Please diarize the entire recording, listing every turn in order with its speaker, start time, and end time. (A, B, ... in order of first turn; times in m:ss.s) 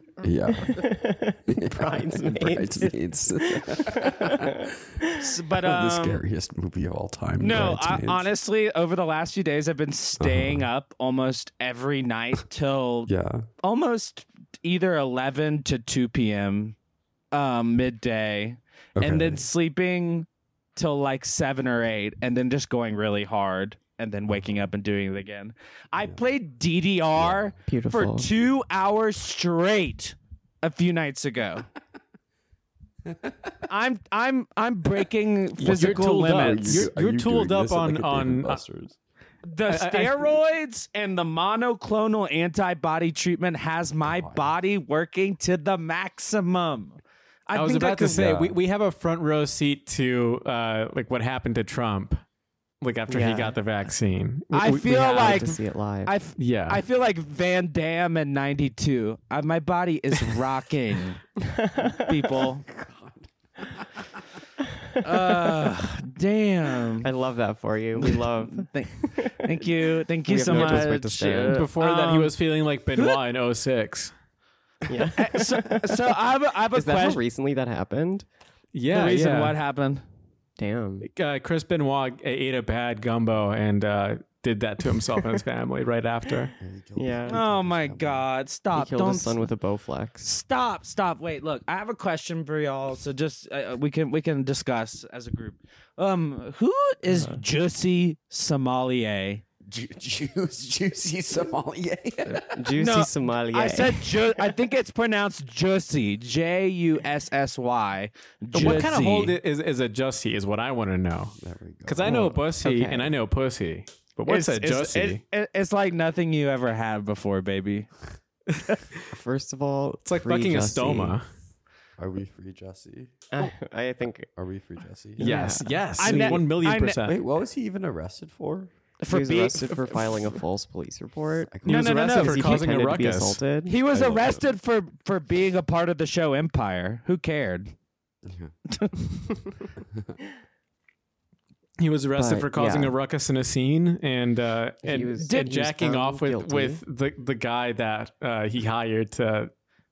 0:00.2-0:00.9 A
0:00.7-0:04.7 B
0:01.5-0:08.3 A
0:05.2-0:06.2 C
0:07.4-0:16.8 C
0:10.2-0:10.7 A
0:13.1-0:13.5 A
0:17.3-0:31.7 C
0:19.0-0:19.4 A
0:27.2-0:27.6 A
0:27.7-0:28.3 B
0:33.1-0:33.5 A
0:33.6-0:36.9 C
0:35.6-0:38.6 D
0:35.6-0:39.0 A
0:39.4-0:48.5 C
0:39.7-0:40.3 D
0:44.0-0:44.5 A
0:47.5-0:52.2 D
0:52.8-0:55.3 D
0:53.1-0:53.6 B
0:54.5-1:01.2 C
0:54.9-0:56.2 B
0:56.4-0:56.8 D
1:01.8-1:02.0 B
1:02.0-1:02.7 C
1:02.7-1:04.1 A
1:05.0-1:07.1 C
1:07.0-1:09.7 B
1:08.0-1:12.4 C
1:10.2-1:11.7 B
1:10.5-1:11.0 D
1:11.5-1:14.1 D
1:14.9-1:16.1 B
1:15.2-1:17.2 C
1:16.7-1:18.3 B
1:18.7-1:19.6 D
1:18.9-1:20.0 C
1:20.6-1:21.1 B
1:21.0-1:26.5 D
1:26.6-1:28.3 A
1:27.0-1:27.4 B
1:27.3-1:29.5 C
1:28.7-1:30.3 B
1:30.2-1:39.4 C
1:39.6-1:42.7 A
1:42.5-1:44.2 B
1:42.8-1:49.4 C
1:48.5-1:51.3 D
1:51.4-1:52.4 A
1:51.9-1:55.2 D
1:52.0-1:53.2 B
1:54.3-1:57.9 C
1:59.1-2:01.2 B
2:00.0-2:01.3 D
2:02.0-2:03.5 A
2:03.3-2:04.3 B
2:04.4-2:08.7 A
2:05.2-2:05.8 B
2:05.2-2:07.2 D
2:06.0-2:07.0 C
2:09.0-2:10.4 C
2:09.1-2:14.4 B
2:11.5-2:11.9 A
2:11.7-2:12.7 C
2:11.7-2:13.5 D
2:13.6-2:17.7 C
2:13.9-2:14.4 A
2:18.2-2:18.5 A
2:18.7-2:19.0 C
2:21.8-2:29.5 D
2:22.2-2:23.0 B
2:24.8-2:26.8 B
2:25.2-2:25.6 C